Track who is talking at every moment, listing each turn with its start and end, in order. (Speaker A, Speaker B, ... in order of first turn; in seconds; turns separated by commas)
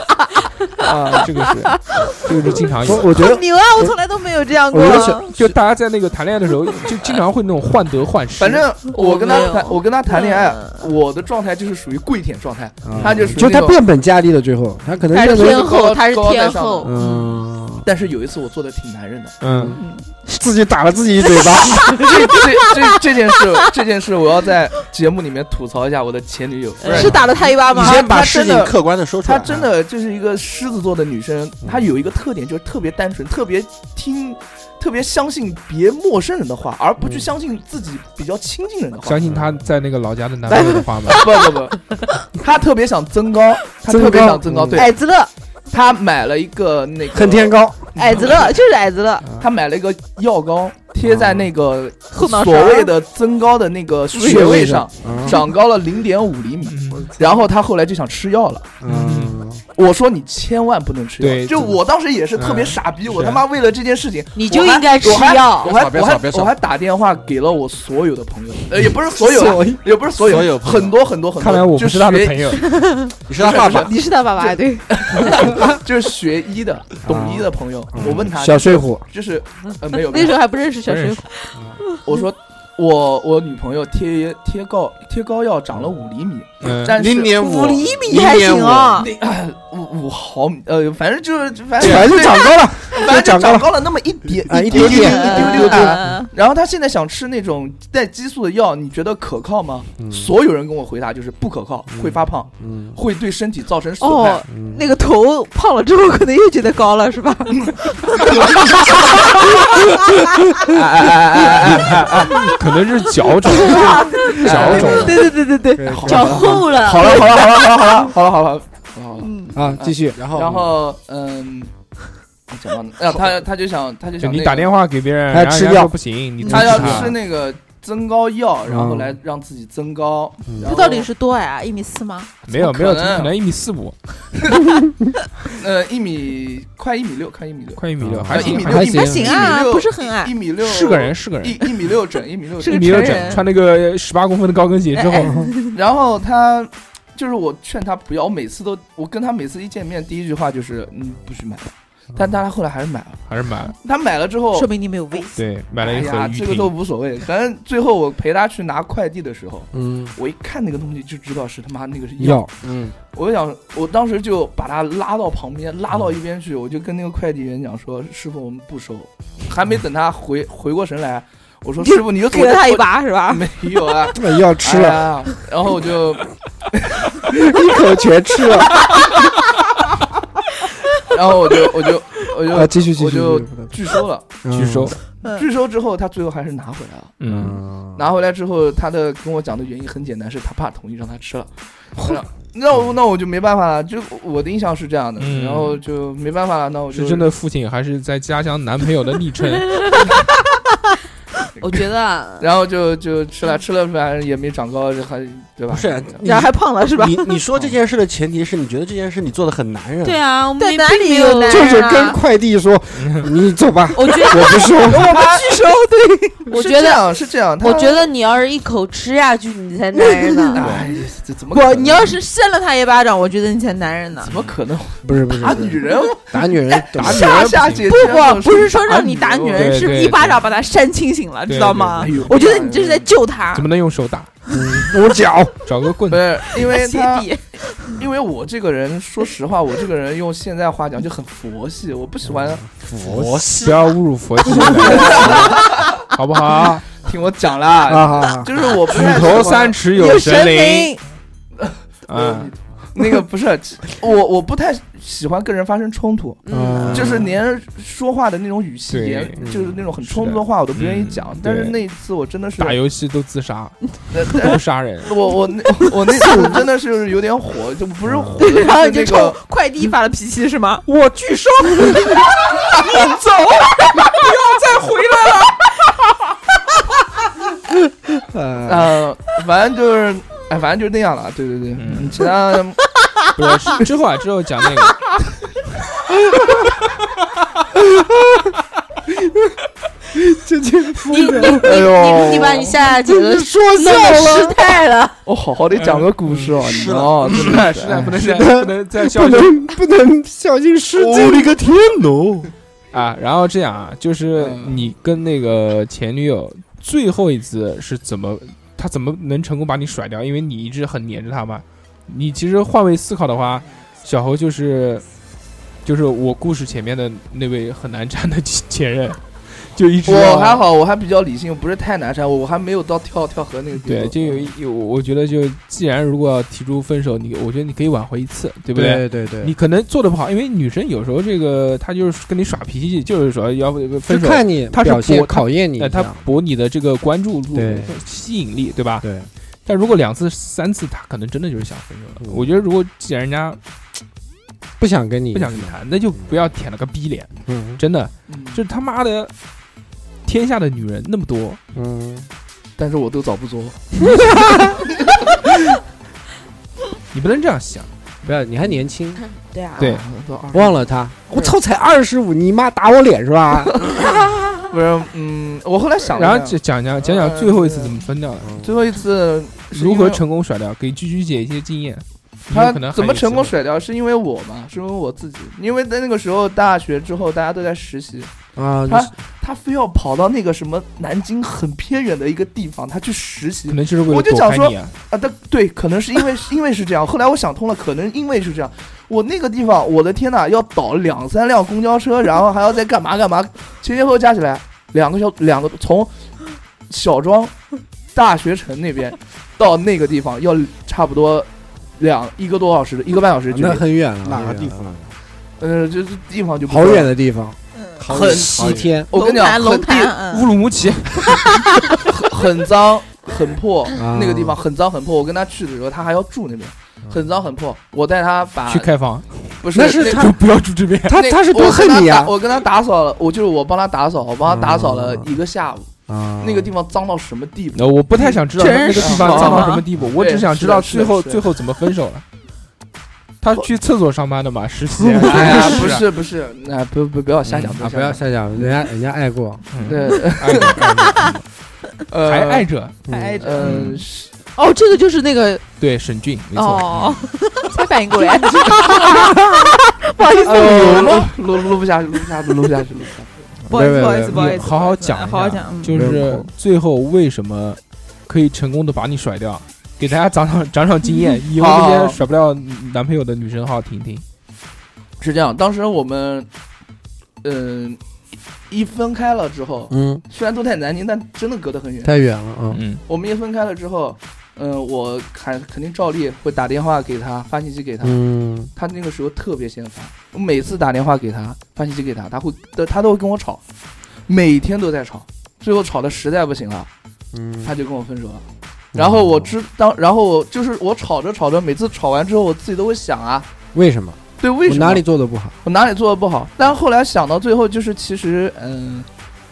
Speaker A: 0.8-1.3, Speaker B: 0.9-2.3, Speaker C: 1.2-3.1, Speaker D: 2.8-4.0, Speaker B: 2.9-5.3, Speaker D: 4.7-5.3, Speaker C: 5.3-8.7, Speaker A: 8.4-13.8, Speaker E: 8.9-9.8, Speaker B: 10.1-10.5, Speaker D: 12.8-15.7, Speaker B: 15.1-17.3, Speaker A: 15.2-17.0, Speaker D: 16.8-17.9, Speaker A: 17.8-19.4, Speaker C: 19.4-19.8, Speaker D: 19.5-22.3, Speaker B: 19.7-20.2, Speaker B: 21.2-22.8, Speaker A: 22.0-39.2, Speaker F: 26.8-29.7, Speaker B: 26.9-28.1, Speaker D: 37.0-37.3, Speaker C: 39.0-41.2, Speaker B: 40.5-41.5, Speaker A: 41.1-41.8, Speaker A: 42.4-44.9, Speaker D: 43.9-44.9, Speaker B: 44.8-45.3, Speaker A: 45.7-48.5, Speaker D: 47.1-47.9, Speaker B: 48.0-49.3, Speaker A: 49.4-58.8, Speaker D: 51.0-51.5, Speaker B: 52.1-52.9, Speaker B: 54.1-54.7, Speaker D: 54.2-55.4, Speaker C: 56.7-57.1, Speaker D: 58.8-59.6, Speaker C: 58.9-59.4, Speaker A: 59.8-72.7, Speaker C: 61.2-61.8, Speaker C: 62.4-63.4, Speaker E: 64.4-65.7, Speaker F: 65.6-66.5, Speaker D: 69.2-69.8, Speaker F: 70.2-71.0, Speaker C: 71.4-72.6, Speaker B: 72.6-73.1, Speaker F: 73.3-73.9, Speaker A: 73.3-80.4, Speaker B: 73.7-75.4, Speaker D: 77.0-79.0, Speaker B: 80.1-82.0, Speaker C: 80.8-81.3, Speaker A: 82.0-87.4, Speaker C: 86.6-87.0, Speaker F: 87.0-89.1, Speaker B: 87.3-89.1, Speaker A: 89.0-104.5, Speaker D: 91.8-96.2, Speaker B: 94.8-96.3, Speaker D: 100.0-100.3, Speaker D: 101.9-103.0, Speaker B: 104.0-109.9, Speaker D: 104.5-104.9, Speaker A: 108.2-110.0, Speaker A: 110.5-112.5, Speaker C: 111.8-115.2, Speaker B: 113.5-116.0, Speaker A: 114.3-115.3, Speaker D: 114.5-115.0, Speaker D: 115.8-116.6, Speaker A: 115.9-121.7, Speaker E: 116.0-117.3, Speaker B: 119.2-119.6, Speaker D: 119.5-120.2, Speaker F: 120.2-120.7, Speaker A: 122.5-124.7, Speaker C: 124.2-127.2, Speaker D: 125.3-125.9, Speaker A: 126.5-131.1, Speaker D: 126.5-127.1, Speaker D: 128.7-129.2, Speaker D: 130.5-130.7, Speaker B: 130.6-132.4, Speaker C: 132.5-134.0, Speaker A: 132.6-133.3, Speaker A: 134.4-134.7, Speaker A: 135.5-143.4, Speaker C: 137.8-138.9, Speaker D: 138.0-139.4, Speaker B: 138.4-140.3, Speaker C: 140.6-141.6, Speaker B: 142.6-143.5, Speaker C: 142.7-145.3, Speaker B: 144.9-145.8, Speaker D: 145.2-145.5, Speaker A: 145.7-153.2, Speaker C: 153.3-153.8, Speaker A: 153.8-154.7, Speaker B: 154.5-155.4, Speaker C: 155.3-156.7, Speaker A: 155.7-162.5, Speaker D: 159.7-160.1, Speaker D: 162.2-162.5, Speaker F: 162.6-162.9, Speaker A: 163.1-177.3, Speaker B: 171.8-173.5, Speaker D: 174.1-175.1, Speaker D: 177.2-179.1, Speaker A: 181.1-184.3, Speaker D: 182.4-185.0, Speaker C: 184.5-185.0, Speaker A: 185.2-187.2, Speaker C: 187.2-187.6, Speaker D: 187.3-188.1, Speaker A: 188.0-197.3, Speaker C: 195.2-195.8, Speaker C: 196.9-199.9, Speaker B: 200.0-200.5, Speaker E: 201.6-202.5, Speaker A: 201.6-201.9, Speaker A: 202.4-206.2, Speaker F: 205.7-210.2, Speaker B: 206.2-207.4, Speaker E: 210.0-211.8, Speaker B: 210.6-212.2, Speaker D: 211.5-215.3, Speaker C: 213.0-213.3, Speaker B: 213.9-216.5, Speaker A: 214.9-215.5, Speaker E: 216.5-217.0, Speaker A: 216.5-218.1, Speaker E: 217.6-220.6, Speaker B: 219.9-220.8, Speaker A: 220.6-222.2, Speaker B: 221.5-224.3, Speaker A: 224.2-229.8, Speaker D: 225.0-227.3, Speaker B: 225.4-226.1, Speaker C: 227.0-228.0, Speaker B: 227.1-233.7, Speaker C: 229.6-230.4, Speaker C: 231.5-232.3, Speaker A: 232.0-233.1, Speaker C: 233.5-234.3, Speaker D: 234.5-235.5, Speaker C: 235.7-236.4, Speaker A: 236.1-237.3, Speaker B: 236.6-238.0, Speaker A: 237.8-242.6, Speaker D: 242.2-243.5, Speaker F: 242.9-243.8, Speaker C: 243.5-246.8, Speaker A: 244.7-245.9, Speaker A: 247.0-249.8, Speaker D: 247.9-248.6, Speaker C: 248.9-250.9, Speaker B: 249.9-251.0, Speaker A: 251.6-262.8, Speaker C: 252.1-252.5, Speaker E: 256.4-257.0, Speaker D: 256.5-257.3, Speaker C: 256.9-257.3, Speaker C: 258.9-259.4, Speaker D: 259.4-259.8, Speaker C: 260.0-261.8, Speaker C: 262.6-265.1, Speaker A: 264.1-269.4, Speaker B: 266.2-266.6, Speaker D: 268.1-268.5, Speaker B: 268.4-270.9, Speaker C: 271.0-271.8, Speaker B: 271.7-275.7, Speaker D: 278.2-278.9, Speaker A: 278.7-282.8, Speaker C: 281.8-282.3, Speaker C: 283.3-285.0, Speaker D: 287.9-288.3, Speaker D: 290.1-294.8, Speaker E: 291.1-295.2, Speaker A: 291.5-292.8, Speaker A: 295.3-298.2, Speaker C: 295.8-296.6, Speaker F: 296.6-297.6, Speaker C: 297.3-299.7, Speaker D: 297.9-301.6, Speaker F: 301.0-302.5, Speaker C: 302.9-315.0, Speaker A: 304.4-304.9, Speaker C: 315.9-320.6, Speaker A: 320.1-324.5, Speaker C: 323.8-339.1, Speaker D: 328.7-329.5, Speaker D: 334.0-336.2, Speaker D: 337.5-338.0, Speaker D: 339.0-339.3, Speaker C: 339.7-343.6, Speaker D: 344.8-345.8, Speaker C: 345.3-349.3, Speaker D: 347.5-347.8, Speaker A: 348.3-348.6, Speaker C: 350.3-351.6, Speaker D: 351.7-352.3, Speaker A: 352.8-355.4, Speaker D: 354.1-354.8, Speaker C: 357.1-357.9, Speaker D: 358.2-359.2, Speaker E: 359.4-359.8, Speaker C: 359.8-360.0, Speaker A: 359.8-361.5, Speaker D: 360.5-363.9, Speaker A: 363.7-368.0, Speaker C: 366.1-368.6, Speaker D: 368.4-368.8, Speaker A: 368.6-370.2, Speaker C: 369.7-373.5, Speaker A: 372.5-378.3, Speaker D: 378.6-379.1, Speaker A: 378.9-396.1, Speaker C: 383.7-384.9, Speaker A: 396.9-397.5, Speaker A: 398.1-401.5, Speaker A: 402.0-403.8, Speaker D: 403.5-404.9, Speaker F: 404.2-405.1, Speaker A: 405.6-407.1, Speaker D: 406.7-409.1, Speaker B: 407.8-408.0, Speaker F: 408.0-409.0, Speaker A: 408.1-410.1, Speaker B: 409.1-410.5, Speaker C: 410.3-411.5, Speaker B: 411.3-411.8, Speaker A: 411.9-418.9, Speaker D: 414.0-414.6, Speaker C: 418.7-421.2, Speaker A: 419.6-420.3, Speaker D: 419.8-420.4, Speaker D: 421.0-422.3, Speaker A: 421.1-428.4, Speaker D: 424.4-425.3, Speaker D: 426.1-426.7, Speaker C: 427.8-432.2, Speaker B: 428.6-429.8, Speaker A: 429.0-431.4, Speaker C: 433.4-436.1, Speaker A: 435.2-438.8, Speaker C: 437.5-437.8, Speaker D: 437.8-439.6, Speaker C: 439.7-441.4, Speaker A: 439.8-440.8, Speaker A: 442.1-442.7, Speaker C: 442.2-443.0, Speaker D: 443.1-443.4, Speaker B: 443.1-445.6, Speaker A: 443.4-444.3, Speaker C: 443.6-444.0, Speaker C: 445.8-447.2, Speaker B: 446.5-451.3, Speaker A: 450.4-453.4, Speaker B: 453.7-456.0, Speaker D: 453.7-454.6, Speaker C: 454.3-464.2, Speaker D: 455.9-456.5, Speaker A: 461.6-462.2, Speaker A: 465.2-466.5, Speaker A: 467.4-468.0, Speaker A: 468.7-472.1, Speaker D: 469.9-470.2, Speaker D: 472.0-472.8, Speaker C: 472.7-473.0, Speaker A: 473.1-478.2, Speaker D: 478.0-478.7, Speaker A: 478.8-483.6, Speaker A: 484.3-486.9, Speaker D: 487.3-487.7, Speaker A: 487.6-493.5, Speaker D: 488.9-489.5, Speaker D: 493.7-495.5, Speaker A: 494.4-495.0, Speaker A: 495.6-499.1